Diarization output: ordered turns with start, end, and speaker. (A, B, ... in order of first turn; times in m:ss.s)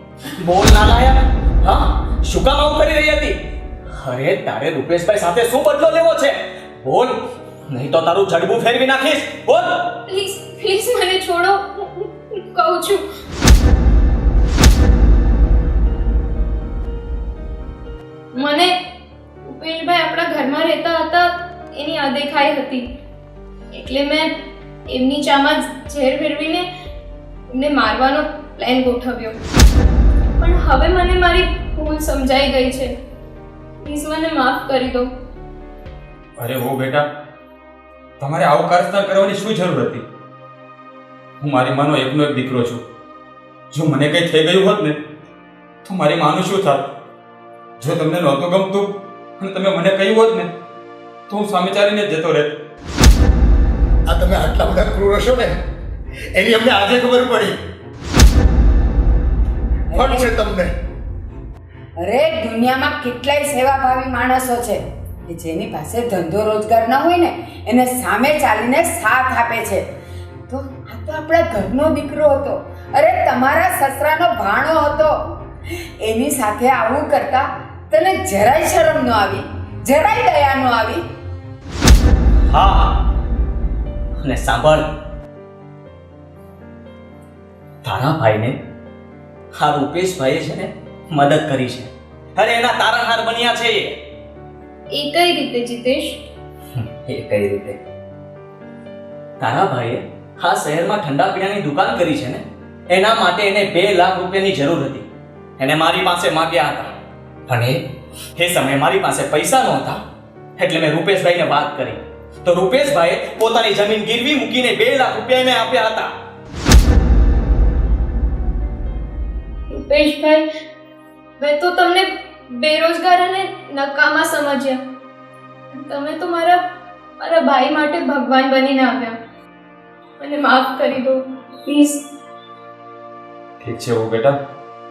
0:00.4-0:03.4 A
0:04.0-0:07.2 A
0:07.7-0:09.9 A
0:10.1-0:13.0 B
0:18.3-0:18.7 B
0:19.4-0:22.8 B
0:23.7-0:24.3 B
0:24.8-0:26.6 B
0:27.5-0:29.4 B
0:30.4-0:32.9 B
0:33.8-0:35.1 B
0:36.4-0:37.0 C
0:38.2-0:40.0 C
0:41.4-0:42.8 C
0:43.7-0:45.0 C
0:45.8-0:46.9 C
0:47.8-0:50.5 C
0:51.3-0:52.5 C
0:54.1-0:55.6 D
0:56.3-0:57.6 D
0:59.9-1:00.3 E
0:59.9-1:00.7 D
1:02.0-1:09.8 E
1:10.5-1:15.2 E
1:16.0-1:21.0 E
1:22.5-1:23.0 A
1:24.2-1:24.9 A
1:27.8-1:28.6 A
1:29.6-1:34.0 A
1:34.9-1:36.2 B
1:36.9-1:37.8 A
1:39.4-1:45.1 A
1:45.6-1:46.9 A
1:47.5-1:47.8 A
1:48.4-1:50.0 A
1:50.6-1:56.1 A
1:59.7-2:00.4 B
2:01.4-2:04.8 B
2:05.7-2:06.6 B
2:07.2-2:09.2 B
2:10.2-2:12.0 B
2:13.6-2:14.3 C